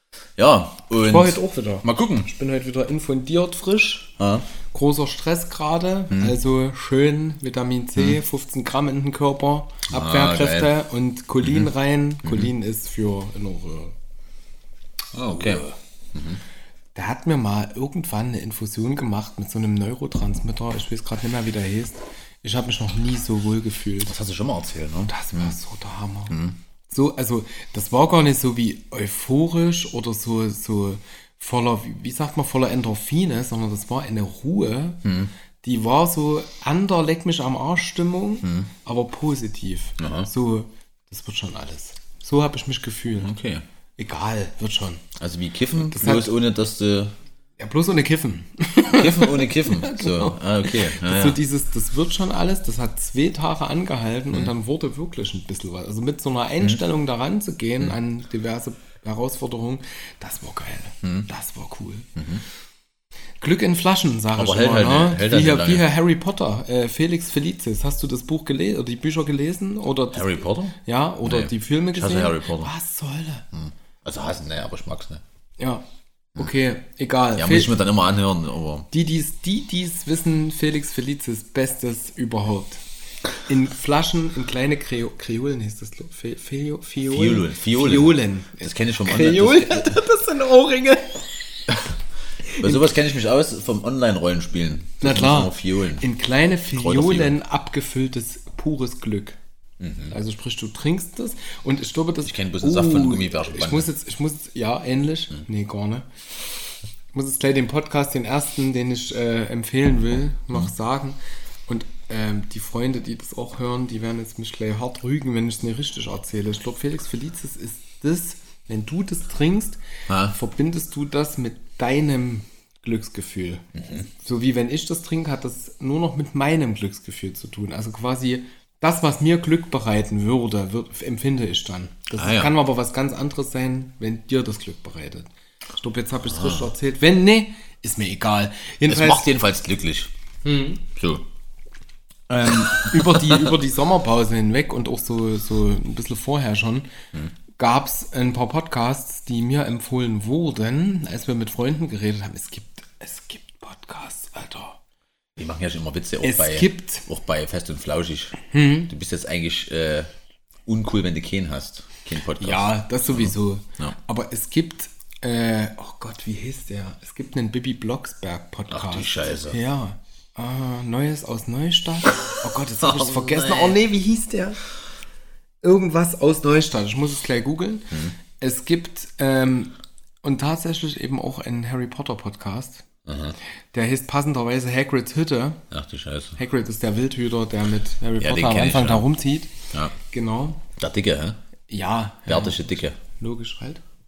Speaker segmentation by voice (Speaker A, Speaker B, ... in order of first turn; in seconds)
Speaker A: 0.4-2.3, 4.2-4.5, 9.9-10.7, 11.4-11.7, 12.2-12.5, 15.1-16.4, 24.0-25.5, 26.3-26.6, 35.0-35.3, 38.4-38.7, 40.0-40.3, 43.1-43.6, 45.1-47.1, 48.9-51.4, 61.0-61.3, 62.1-62.4, 64.3-65.9, 70.1-72.7, 73.5-75.2, 77.3-78.9, 87.0-90.0, 92.6-96.1, 96.7-97.3, 99.8-100.2, 102.2-103.9, 120.1-120.3, 123.8-124.0, 132.2-132.5, 136.3-136.7, 138.9-140.1, 140.9-141.2, 142.8-143.4, 155.3-160.1, 160.7-163.9, 168.7-169.6, 172.8-173.8, 183.1-183.3, 185.7-186.4, 188.2-189.1, 190.8-191.4, 192.3-193.0
Speaker B: 1.0-4.2, 4.7-13.9, 16.9-24.1, 25.1-26.4, 26.9-35.0, 35.6-43.3, 44.0-45.0, 45.9-46.3, 47.6-62.1, 63.4-73.4, 75.6-75.8, 76.3-77.7, 78.9-82.8, 83.4-91.3, 92.5-92.8, 95.0-99.4, 100.1-106.1, 107.1-111.2, 111.7-139.3, 140.4-140.8, 142.3-146.9, 147.6-154.8, 156.2-157.1, 158.5-158.9, 162.4-174.6, 175.6-182.8, 183.7-185.6, 186.4-189.5, 190.0-190.6, 191.7-193.8